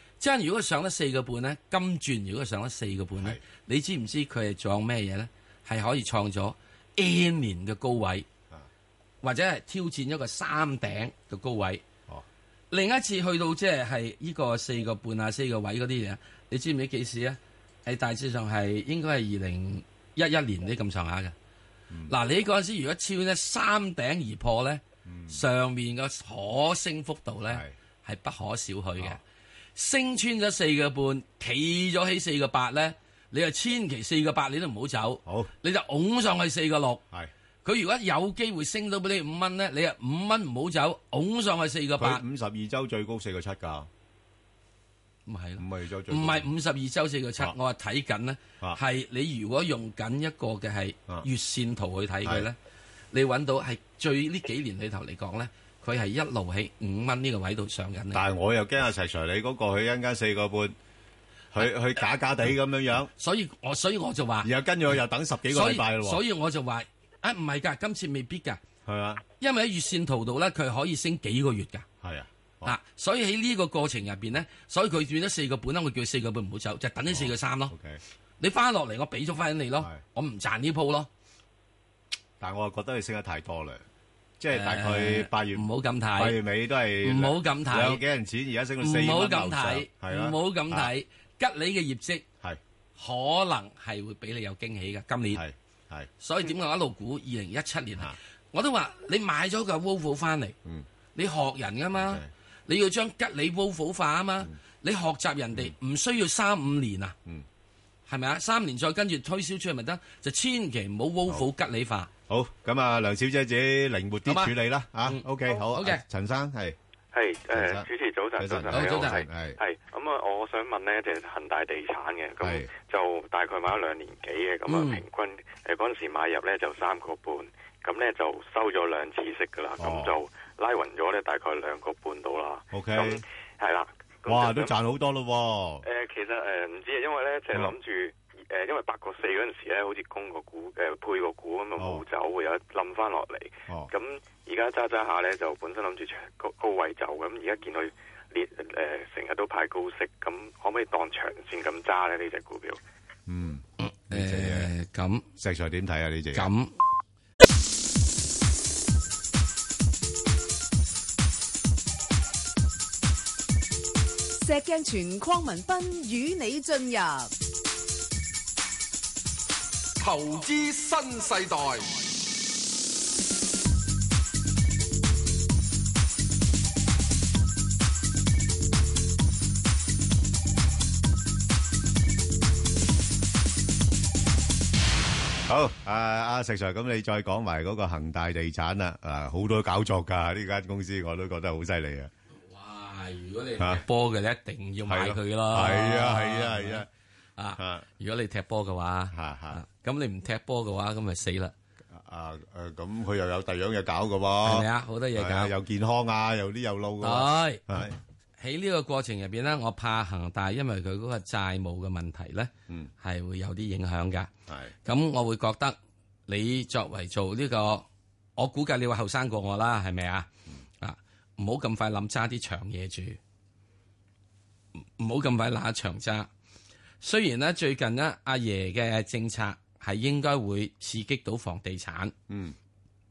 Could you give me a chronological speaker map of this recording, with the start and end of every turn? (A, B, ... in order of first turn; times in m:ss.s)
0:00.2-0:08.3 A
0:09.2-0:11.8 A
0:12.7-0:21.3 A
0:22.1-0:29.2 A
0:25.0-0:25.4 B
0:29.8-0:37.0 A
0:35.2-0:35.5 B
0:37.6-0:42.2 A
0:42.0-0:43.9 B
0:45.2-0:52.6 A
0:45.6-0:46.5 B
0:53.1-0:58.2 A
0:58.1-1:00.7 B
1:01.5-1:03.1 B
1:03.2-1:04.5 A
1:04.4-1:06.2 B
1:05.5-1:08.6 A
1:08.8-1:09.2 B
1:09.4-1:11.8 A
1:12.0-1:12.8 B
1:12.6-1:17.7 A
1:17.0-1:18.0 B
1:18.4-1:21.1 A
1:22.4-1:23.8 B
1:24.4-1:30.9 B
1:24.5-1:26.4 A
1:27.0-1:28.0 A
1:28.8-1:32.2 A
1:33.0-1:35.4 A
1:35.3-1:36.1 B
1:36.2-1:40.6 A
1:41.1-1:47.2 A
1:41.9-1:42.3 B
1:48.1-1:52.1 A
1:52.3-1:56.8 B
1:54.2-1:56.0 A
1:57.1-2:14.8 C
1:57.5-1:59.6 B
1:58.7-1:59.2 A
2:02.4-2:02.7 B
2:04.7-2:05.0 A
2:09.8-2:10.1 B
2:12.7-2:13.2 B
2:14.3-2:15.8 B
2:15.8-2:32.8 C
2:21.8-2:22.0 B
2:33.3-2:34.7 B
2:33.8-2:35.2 A
2:35.4-2:36.5 B
2:36.3-2:36.7 A
2:44.4-2:47.3 D
2:50.0-2:52.0 E
3:05.4-3:12.1 B
3:12.3-3:16.8 A
3:14.9-3:16.9 B
3:17.4-3:21.5 A
3:17.6-3:17.8 B
3:19.1-3:19.6 B
3:21.9-3:28.0 B
3:24.4-3:25.5 A
3:27.0-3:27.6 A
3:28.4-3:34.3 A
3:34.5-3:34.7 B
3:34.8-3:35.8 A
3:36.3-3:37.8 A
3:38.4-3:40.3 A
3:40.8-3:43.2 A
3:44.8-3:46.3 A
3:47.0-3:52.1 A
3:52.3-3:52.6 B